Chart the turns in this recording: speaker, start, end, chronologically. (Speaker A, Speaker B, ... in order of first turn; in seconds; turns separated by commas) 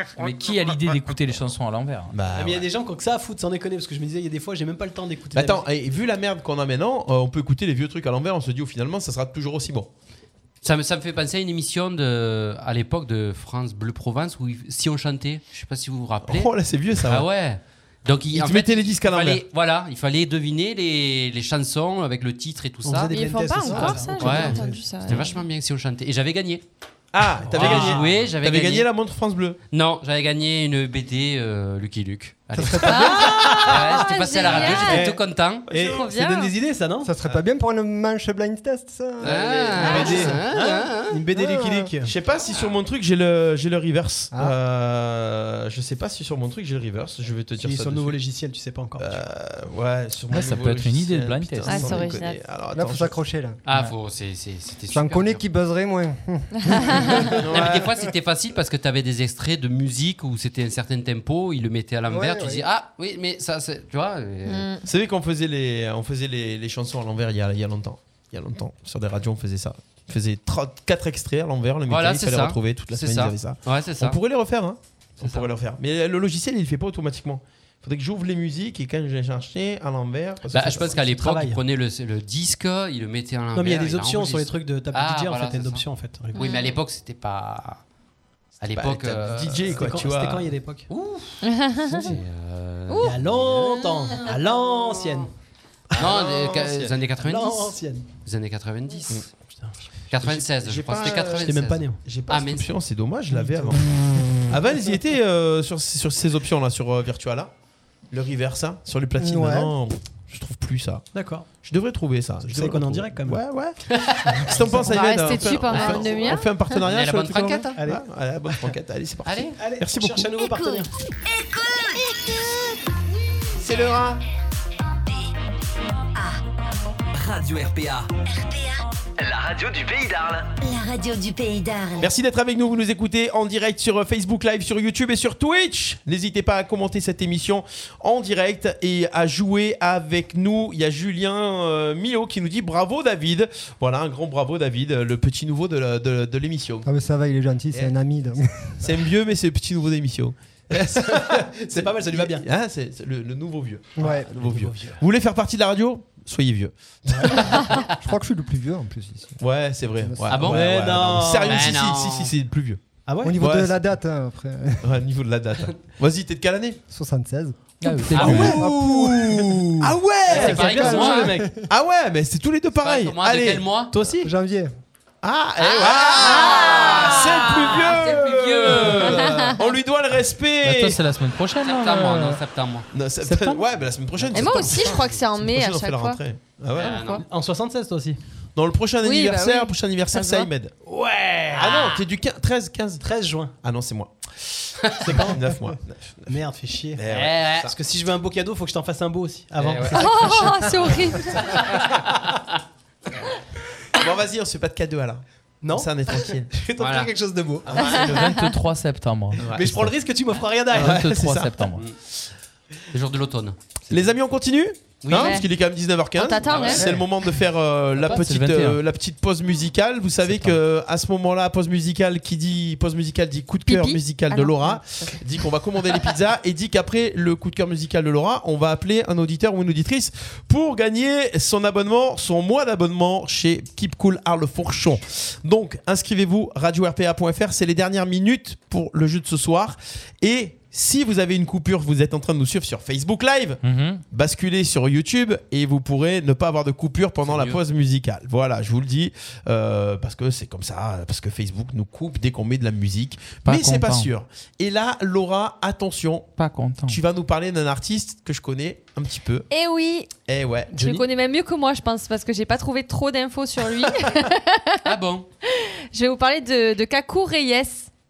Speaker A: 0.1-2.1, Speaker B: 2.1-2.7, Speaker C: 2.3-5.7, Speaker B: 5.3-9.9, Speaker D: 10.6-16.5, Speaker B: 16.2-17.3, Speaker D: 17.0-23.1, Speaker B: 18.3-19.4, Speaker C: 22.8-24.8, Speaker E: 23.1-25.4, Speaker D: 24.1-26.6, Speaker B: 27.1-29.6, Speaker C: 27.4-28.2, Speaker D: 27.5-28.9, Speaker D: 29.7-35.7, Speaker F: 32.6-33.5, Speaker C: 32.8-34.0, Speaker E: 32.9-35.1, Speaker C: 34.5-37.1, Speaker E: 35.8-36.5, Speaker F: 37.0-40.4, Speaker D: 39.2-41.1, Speaker C: 39.3-42.1, Speaker B: 39.8-40.1, Speaker E: 39.8-40.2, Speaker F: 41.4-41.9, Speaker B: 42.0-48.2, Speaker C: 47.6-49.2, Speaker B: 49.0-53.1, Speaker A: 50.3-52.0, Speaker E: 51.6-52.4, Speaker F: 52.7-53.6, Speaker D: 53.7-55.4, Speaker F: 54.9-57.8, Speaker E: 56.6-57.2, Speaker B: 57.4-57.9, Speaker D: 57.5-64.7, Speaker F: 62.1-62.7, Speaker E: 64.5-64.8, Speaker B: 64.8-81.0, Speaker D: 71.9-74.2, Speaker D: 75.2-75.5, Speaker D: 80.5-85.8, Speaker C: 80.5-81.6, Speaker C: 83.5-86.4, Speaker E: 86.3-86.8, Speaker D: 86.3-87.8, Speaker D: 88.6-89.7, Speaker B: 88.8-90.5, Speaker C: 89.7-90.9, Speaker D: 90.9-91.4, Speaker E: 91.4-92.2, Speaker C: 91.9-92.2, Speaker D: 92.0-94.3, Speaker E: 92.9-93.2, Speaker C: 93.0-95.3, Speaker B: 95.9-96.9, Speaker D: 96.0-99.2, Speaker C: 97.2-98.1, Speaker C: 99.5-99.9, Speaker D: 100.1-102.7, Speaker B: 100.2-107.5, Speaker C: 101.4-102.0, Speaker C: 103.3-103.8, Speaker B: 108.1-120.3, Speaker F: 109.2-109.7, Speaker C: 111.1-111.5, Speaker C: 112.4-113.4, Speaker D: 113.9-114.2, Speaker C: 114.5-115.0, Speaker E: 114.9-116.6, Speaker D: 116.8-117.7, Speaker E: 117.4-117.7, Speaker C: 117.8-118.7, Speaker D: 119.2-119.5, Speaker C: 119.6-120.9, Speaker G: 120.4-122.1, Speaker B: 123.6-124.2, Speaker G: 126.2-126.4, Speaker H: 127.1-128.1, Speaker G: 128.3-128.8, Speaker H: 129.2-130.5, Speaker G: 130.6-132.1, Speaker B: 132.0-146.9, Speaker F: 146.8-148.9, Speaker B: 148.8-157.5, Speaker C: 150.8-152.4, Speaker F: 154.0-154.3, Speaker C: 154.0-155.0, Speaker C: 157.1-157.6, Speaker F: 157.5-159.4, Speaker B: 159.4-162.8, Speaker F: 160.0-160.4, Speaker D: 160.3-160.7, Speaker C: 160.3-161.7, Speaker D: 161.4-162.3, Speaker C: 163.1-163.4, Speaker F: 163.2-165.0, Speaker B: 163.4-163.8, Speaker B: 164.8-166.8, Speaker F: 166.9-171.7, Speaker A: 167.8-168.7, Speaker C: 168.1-168.7, Speaker B: 168.2-171.1, Speaker C: 170.3-171.5, Speaker D: 170.3-171.4, Speaker B: 171.7-173.7, Speaker D: 172.8-173.9, Speaker C: 173.9-174.3, Speaker F: 174.2-174.7, Speaker B: 175.2-181.0, Speaker E: 175.7-178.2, Speaker D: 175.8-179.5, Speaker E: 179.1-179.6, Speaker A: 180.6-182.4, Speaker D: 181.6-182.9, Speaker B: 182.9-187.0, Speaker A: 183.2-183.6, Speaker E: 184.3-186.2, Speaker D: 186.8-187.2, Speaker E: 186.8-187.2, Speaker C: 187.2-188.2, Speaker B: 188.6-190.7, Speaker E: 189.0-190.5, Speaker C: 190.8-191.8, Speaker B: 191.6-193.0, Speaker D: 191.7-192.0, Speaker C: 193.0-193.6, Speaker B: 193.6-196.4, Speaker C: 195.0-195.7, Speaker C: 196.3-197.0, Speaker B: 197.0-197.7, Speaker D: 197.1-197.7, Speaker C: 197.6-202.2, Speaker D: 199.6-200.5, Speaker E: 199.9-201.6, Speaker D: 201.4-201.9, Speaker B: 204.0-206.5, Speaker C: 205.6-208.0, Speaker D: 206.8-207.1, Speaker B: 207.7-208.4, Speaker A: 208.0-209.4, Speaker E: 208.2-208.4, Speaker C: 209.4-211.0, Speaker B: 209.4-209.9, Speaker B: 210.7-211.7, Speaker A: 210.8-211.8, Speaker D: 212.9-213.6, Speaker B: 213.9-256.3, Speaker D: 215.0-215.4, Speaker E: 215.1-215.5, Speaker E: 216.1-216.9, Speaker D: 216.5-216.9, Speaker C: 216.7-217.0, Speaker A: 218.0-218.8, Speaker A: 220.3-220.6, Speaker E: 223.7-225.2, Speaker A: 243.6-244.0, Speaker D: 247.2-247.6, Speaker A: 253.4-254.1, Speaker A: 256.4-257.0, Speaker B: 256.9-259.5, Speaker E: 259.5-260.1, Speaker B: 260.2-260.8, Speaker C: 260.7-261.0, Speaker E: 260.8-264.9, Speaker D: 264.9-265.3, Speaker E: 265.5-267.9